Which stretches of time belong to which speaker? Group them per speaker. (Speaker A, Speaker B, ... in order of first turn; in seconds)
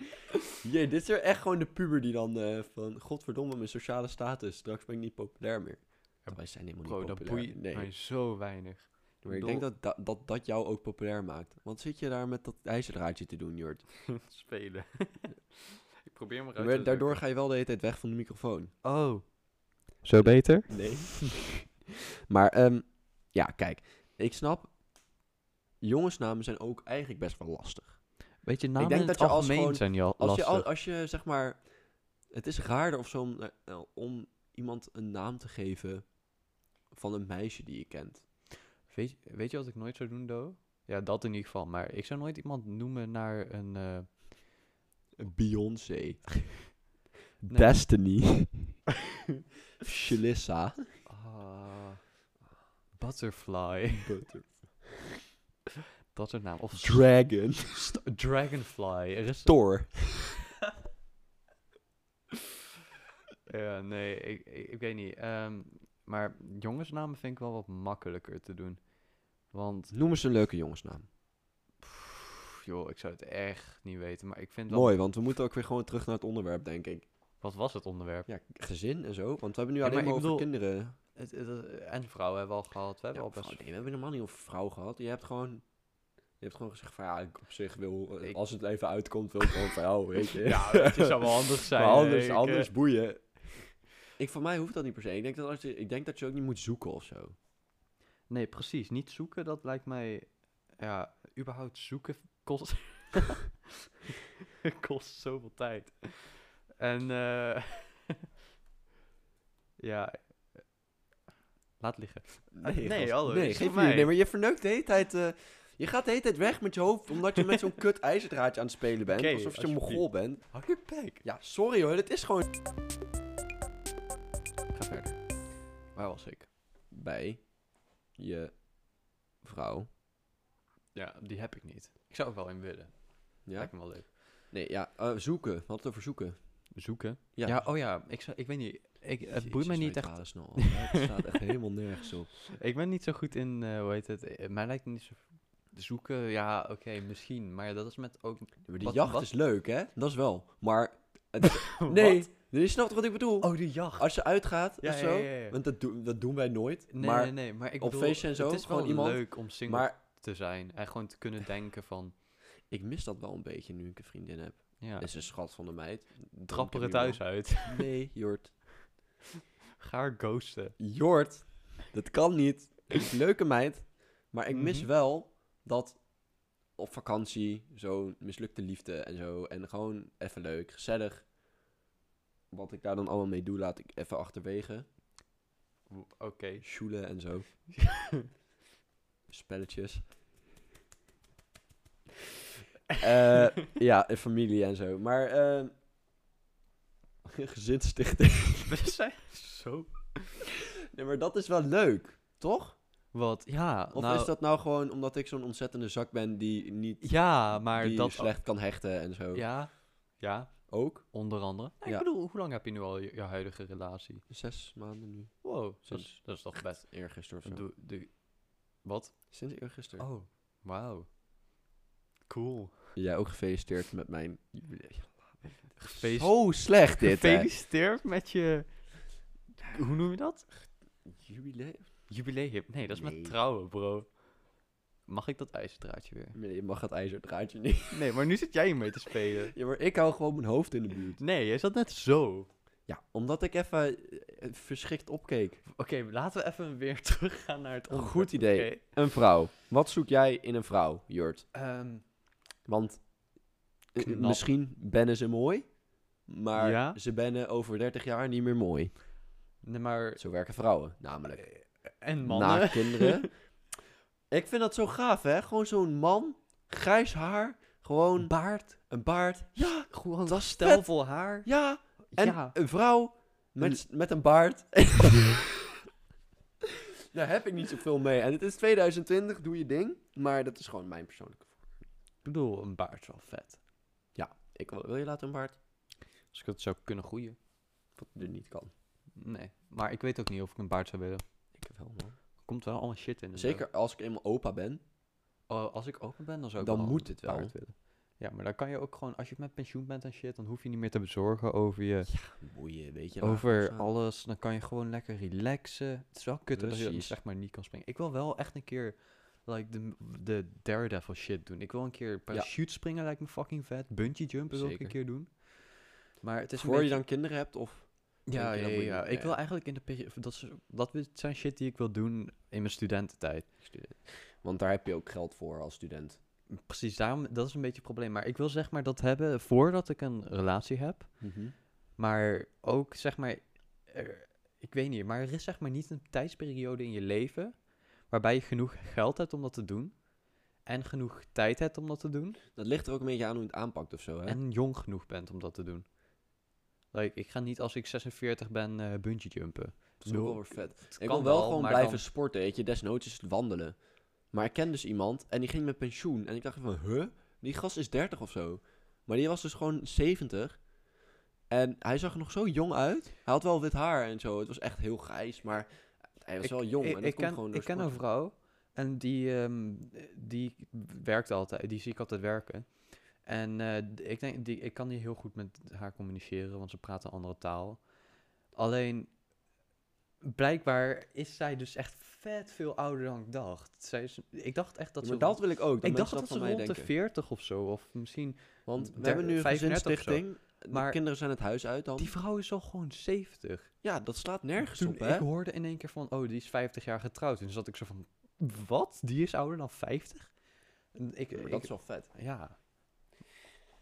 Speaker A: 0.6-7.9, 9.2-14.2, 16.6-18.7, 20.7-21.8, 22.3-24.8, 25.8-38.2, 45.2-46.8, 47.4-48.9, 49.9-50.9, 54.0-55.1, 56.8-58.0, 59.5-60.3, 69.9-71.1, 74.7-77.1, 78.3-81.0, 83.1-97.3, 112.5-122.5, 124.7-129.9, 133.4-136.8, 137.3-137.7, 139.4-142.4, 148.7-160.0, 162.7-168.8, 170.8-181.3, 182.5-184.9, 186.6-187.7, 189.3-190.1, 193.0-195.7, 197.2-198.8, 200.9-203.1, 203.9-209.8, 210.7-212.1, 214.3-217.7, 219.3-220.1, 223.0-227.5, 231.0-232.1, 232.9-233.3, 236.3-238.2, 239.6-241.2, 242.9-245.7, 247.9-251.5, 252.6-259.0, 260.2-263.6, 264.3-275.6, 277.1-281.8, 284.1-285.6, 287.9-288.7, 291.5-292.2, 293.4-294.8, 296.6-297.6, 302.1-303.9, 306.5-307.2, 314.5-315.0, 316.6-319.4, 323.6-326.2, 331.2-331.5, 342.6-344.4, 350.0-360.9, 361.5-368.0, 385.0-386.9, 388.7-392.1, 393.8-395.3, 401.3-402.1
Speaker B: 6.2-9.7, 14.2-17.2, 18.8-21.3, 28.4-30.7, 38.9-44.4, 47.4-48.0, 51.1-52.2, 53.0-54.3, 56.1-60.2, 63.5-70.0, 71.8-75.0, 77.4-78.3, 79.8-83.6, 90.4-92.7, 98.3-103.7, 104.7-108.2, 109.8-110.7, 111.8-114.1, 119.1-121.2, 130.9-134.2, 136.7-141.1, 142.5-149.3, 151.8-152.3, 153.4-155.6, 156.9-162.2, 164.8-165.2, 166.5-167.9, 169.8-170.8, 174.5-174.9, 185.9-186.7, 187.8-188.3, 198.7-200.4, 203.1-204.3, 207.0-208.5, 209.3-214.3, 215.4-219.4, 220.0-221.1, 222.3-223.0, 225.8-230.8, 232.1-236.4, 237.9-239.6, 241.2-242.5, 245.8-248.8, 251.5-252.1, 254.0-254.5, 256.6-257.0, 259.6-260.2, 261.4-263.3, 268.2-269.0, 269.6-272.8, 282.2-283.6, 286.3-287.4, 289.1-291.2, 292.4-293.6, 295.5-302.3, 303.2-317.1, 318.3-323.7, 326.5-342.4, 344.3-346.1, 346.9-352.1, 366.4-379.2, 380.2-391.2, 392.0-393.8, 394.6-403.2